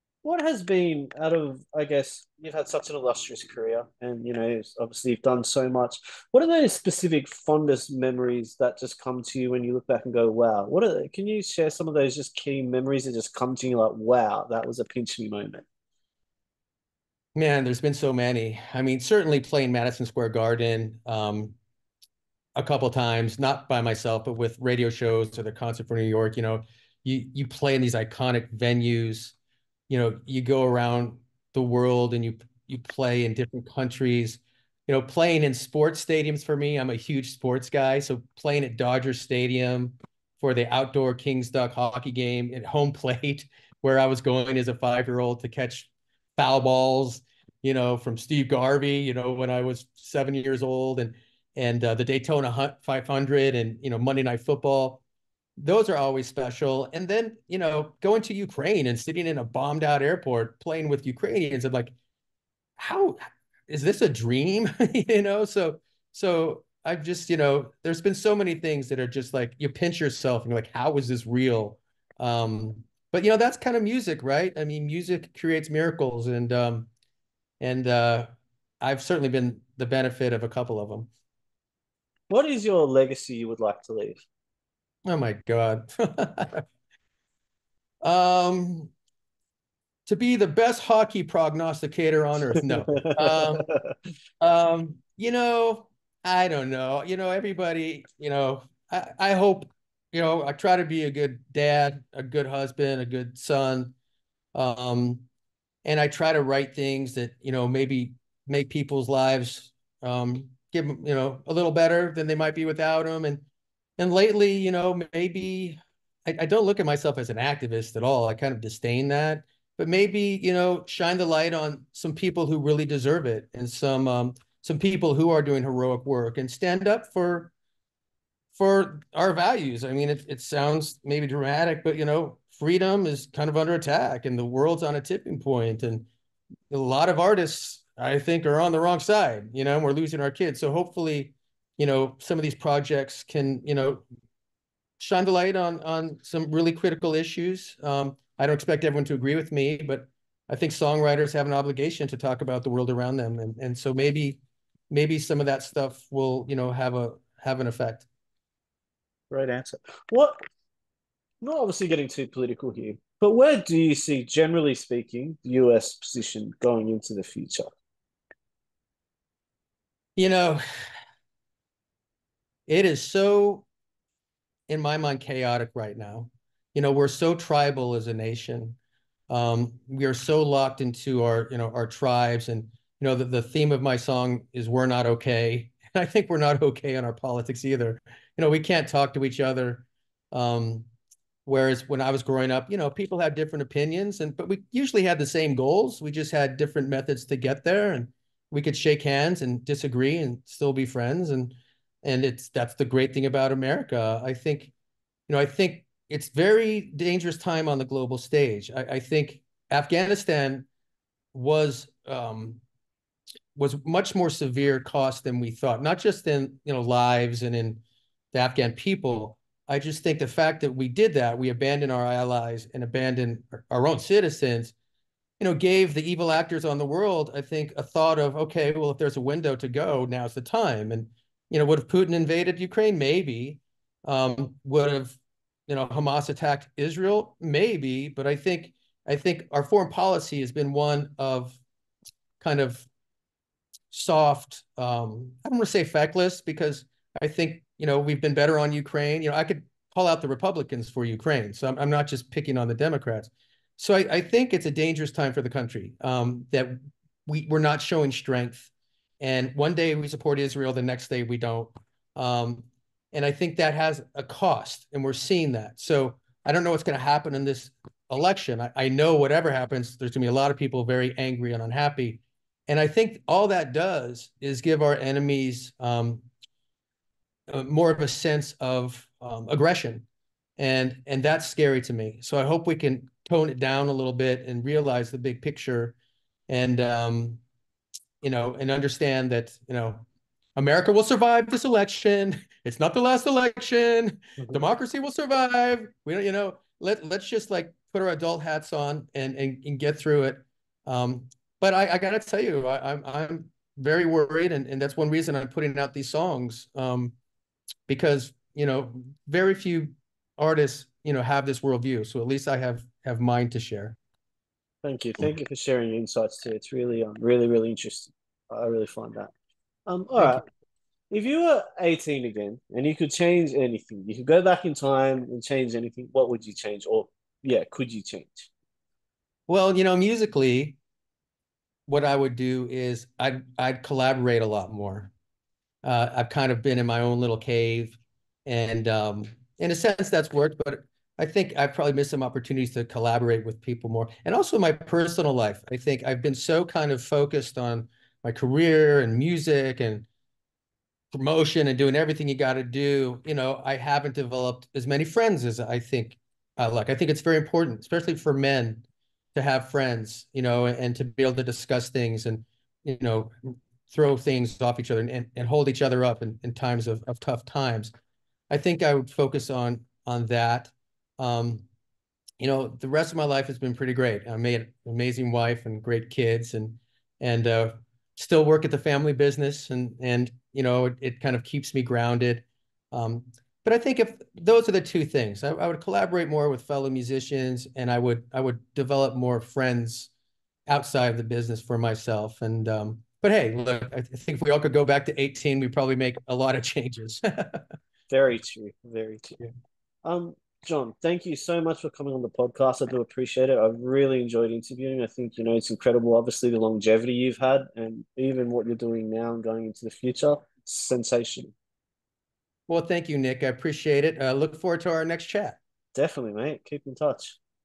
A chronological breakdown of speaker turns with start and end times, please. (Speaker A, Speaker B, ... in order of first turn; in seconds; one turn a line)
Speaker A: 0.2-15.6
Speaker B: 17.3-21.6
Speaker B: 22.6-29.3
Speaker B: 29.9-55.0
Speaker B: 55.6-61.9
Speaker B: 62.8-76.9
Speaker B: 77.6-78.3
Speaker B: 78.8-81.1
Speaker A: 82.3-84.2
Speaker B: 85.0-86.7
Speaker B: 88.0-88.9
Speaker B: 90.0-93.7
Speaker A: 92.9-93.9
Speaker B: 94.4-103.9
Speaker B: 104.5-105.2
Speaker B: 105.8-113.5
Speaker B: 114.0-127.5
Speaker B: 128.5-136.1
Speaker B: 136.7-144.0
Speaker B: 145.0-158.1
Speaker A: 159.3-160.4
Speaker A: 161.4-167.7
Speaker B: 170.2-170.6
Speaker B: 172.7-173.7
Speaker B: 174.7-178.8
Speaker B: 179.3-190.9
Speaker B: 191.4-204.7
Speaker B: 205.3-210.7
Speaker B: 211.3-212.6
Speaker B: 213.5-217.8
Speaker B: 218.3-224.7
Speaker B: 225.4-241.6
Speaker B: 242.4-242.9
Speaker B: 243.9-276.2
Speaker B: 277.5-280.1
Speaker B: 280.6-285.9
Speaker B: 286.5-287.4
Speaker B: 288.2-290.0
Speaker B: 290.6-307.1
Speaker B: 307.9-314.0
Speaker A: 314.8-319.3
Speaker A: 319.9-320.4
Speaker B: 320.2-320.4
Speaker A: 321.1-328.5
Speaker B: 329.5-330.8
Speaker B: 331.9-335.1
Speaker B: 335.8-350.1
Speaker B: 351.1-358.8
Speaker B: 359.3-367.9
Speaker B: 368.5-371.6
Speaker B: 372.4-390.1
Speaker B: 390.7-397.6
Speaker A: 398.1-399.4
Speaker A: 400.0-411.5
Speaker B: 412.7-415.6
Speaker A: 415.9-417.4